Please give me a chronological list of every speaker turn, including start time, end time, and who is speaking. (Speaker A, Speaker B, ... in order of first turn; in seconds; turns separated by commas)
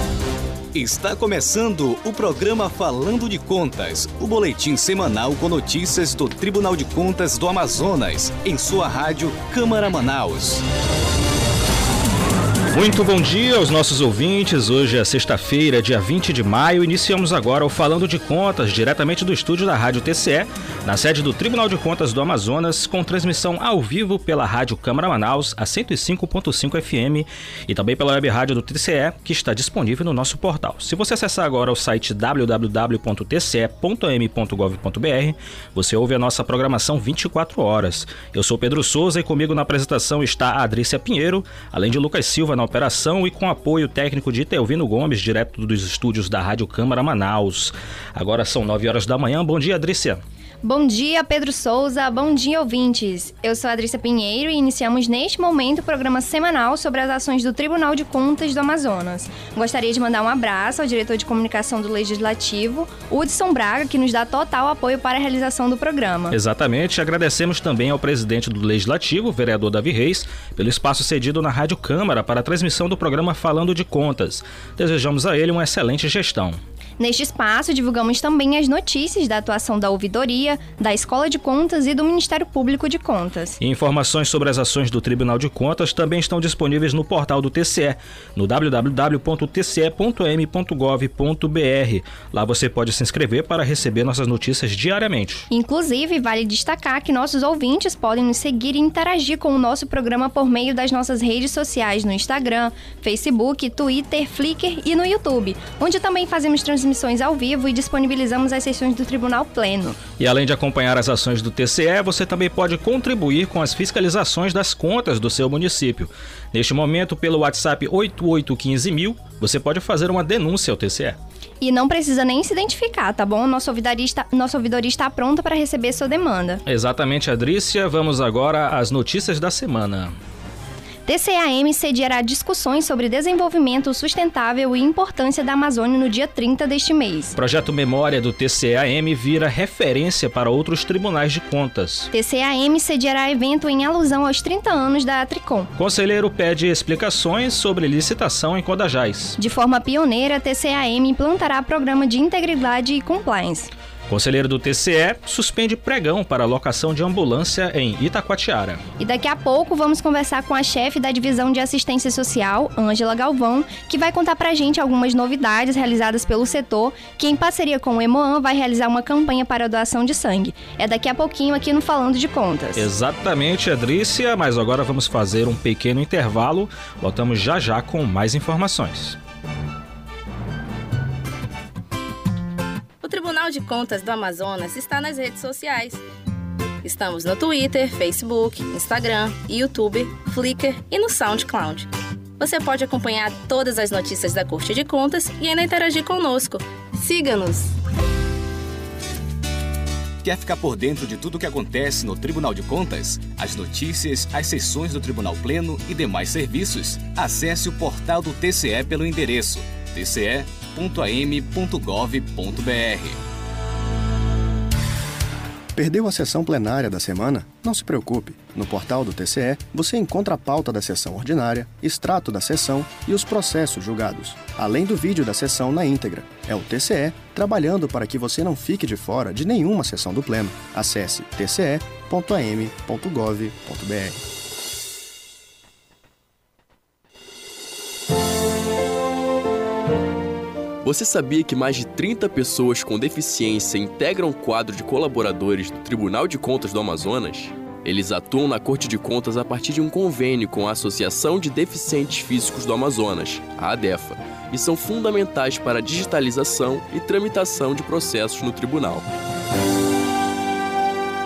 Speaker A: 0.7-10.6, Speaker B: 12.7-50.2, Speaker C: 50.6-66.3, Speaker B: 66.3-76.6, Speaker C: 77.0-83.6, Speaker B: 83.6-95.5, Speaker C: 95.5-110.0, Speaker B: 110.2-121.2, Speaker C: 121.6-126.6, Speaker B: 126.7-130.2, Speaker C: 131.1-137.3, Speaker B: 137.3-142.1, Speaker C: 142.1-145.7, Speaker B: 145.8-149.4, Speaker C: 149.4-153.7, Speaker B: 154.1-158.8, Speaker C: 159.0-172.9, Speaker B: 172.8-179.2, Speaker D: 183.0-186.0, Speaker D: 186.8-191.9, Speaker D: 192.4-197.7, Speaker A: 200.2-213.2, Speaker E: 215.8-234.2, Speaker F: 240.8-259.1